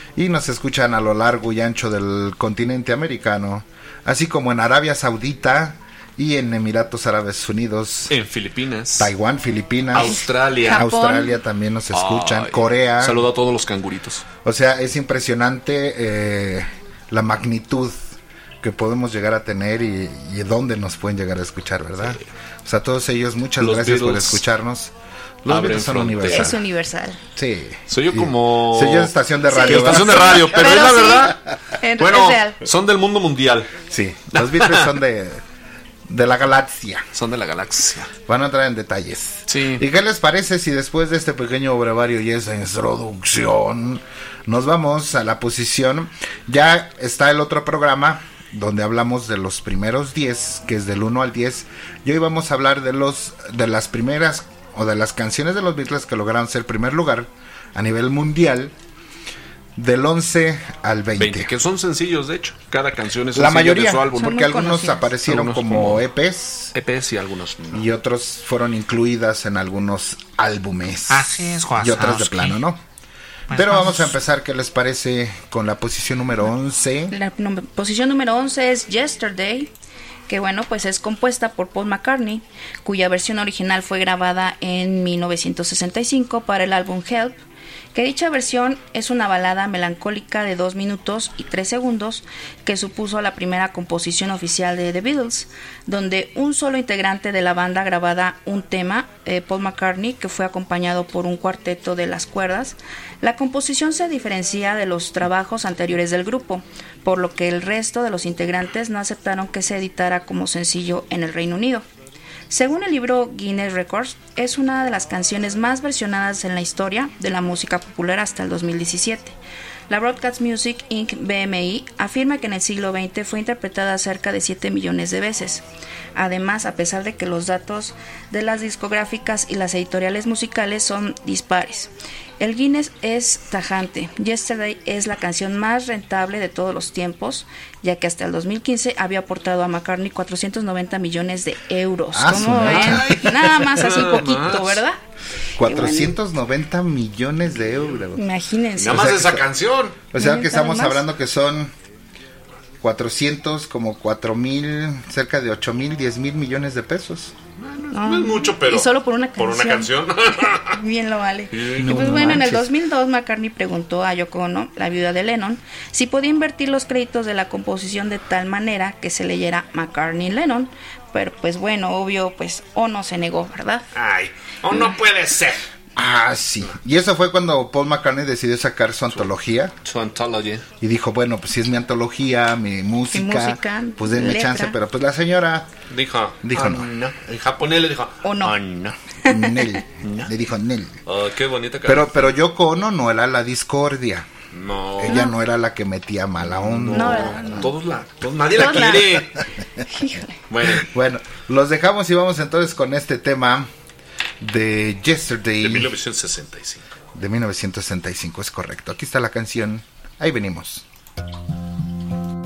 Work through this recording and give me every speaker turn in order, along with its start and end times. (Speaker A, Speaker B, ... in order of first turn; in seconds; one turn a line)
Speaker A: 0.1-8.1
Speaker B: 8.1-9.1
Speaker A: 9.0-13.2
Speaker B: 9.9-10.9
Speaker C: 9.9-11.4
Speaker B: 11.9-14.2
Speaker A: 14.4-24.9
Speaker B: 23.6-24.4
Speaker A: 25.4-26.6
Speaker B: 25.5-26.6
Speaker C: 26.3-27.2
Speaker A: 27.4-31.0
Speaker B: 27.9-31.4
Speaker C: 29.5-32.6
Speaker B: 32.0-33.7
Speaker A: 33.9-35.4
Speaker B: 34.3-34.9
Speaker A: 36.1-37.1
Speaker B: 37.1-38.1
Speaker A: 38.3-58.7
Speaker B: 39.5-39.8
Speaker A: 59.8-61.5
Speaker B: 61.2-64.3
Speaker A: 63.3-66.8
Speaker C: 64.1-65.1
Speaker B: 65.2-66.0
Speaker B: 66.7-67.9
Speaker A: 67.7-72.8
Speaker B: 71.1-72.6
Speaker B: 73.5-74.0
Speaker A: 73.5-77.1
Speaker C: 77.1-79.7
Speaker C: 80.3-87.4
Speaker C: 87.9-111.8
Speaker C: 112.5-119.4
Speaker C: 119.9-125.6
Speaker C: 126.2-145.0
Speaker A: 142.1-143.2
Speaker B: 142.3-144.8
Speaker A: 145.6-148.2
Speaker C: 145.6-146.2
Speaker C: 148.1-149.2
Speaker B: 148.8-150.0
Speaker A: 148.8-149.4
Speaker A: 150.1-151.7
Speaker C: 150.2-151.0
Speaker A: 152.8-157.3
Speaker B: 157.6-160.8
Speaker C: 157.9-173.9
Speaker B: 161.5-162.4
Speaker A: 161.7-162.7
Speaker B: 173.9-175.7
Speaker A: 175.9-179.7
Speaker B: 179.8-180.6
Speaker A: 180.8-185.7
Speaker C: 183.1-184.8
Speaker B: 185.9-189.0
Speaker A: 186.4-186.9
Speaker C: 188.2-188.6
Speaker C: 189.2-189.8
Speaker A: 189.2-191.0
Speaker B: 190.0-190.3
Speaker B: 191.1-192.3
Speaker A: 191.8-194.3
Speaker B: 194.5-195.3
Speaker A: 195.0-197.7
Speaker C: 195.1-195.3
Speaker B: 196.5-199.4
Speaker C: 196.9-197.7
Speaker C: 198.5-199.3
Speaker A: 198.7-199.2
Speaker C: 199.9-200.4
Speaker B: 200.5-200.9
Speaker A: 200.7-203.7
Speaker A: 204.4-205.9
Speaker B: 205.6-206.9
Speaker A: 207.1-210.8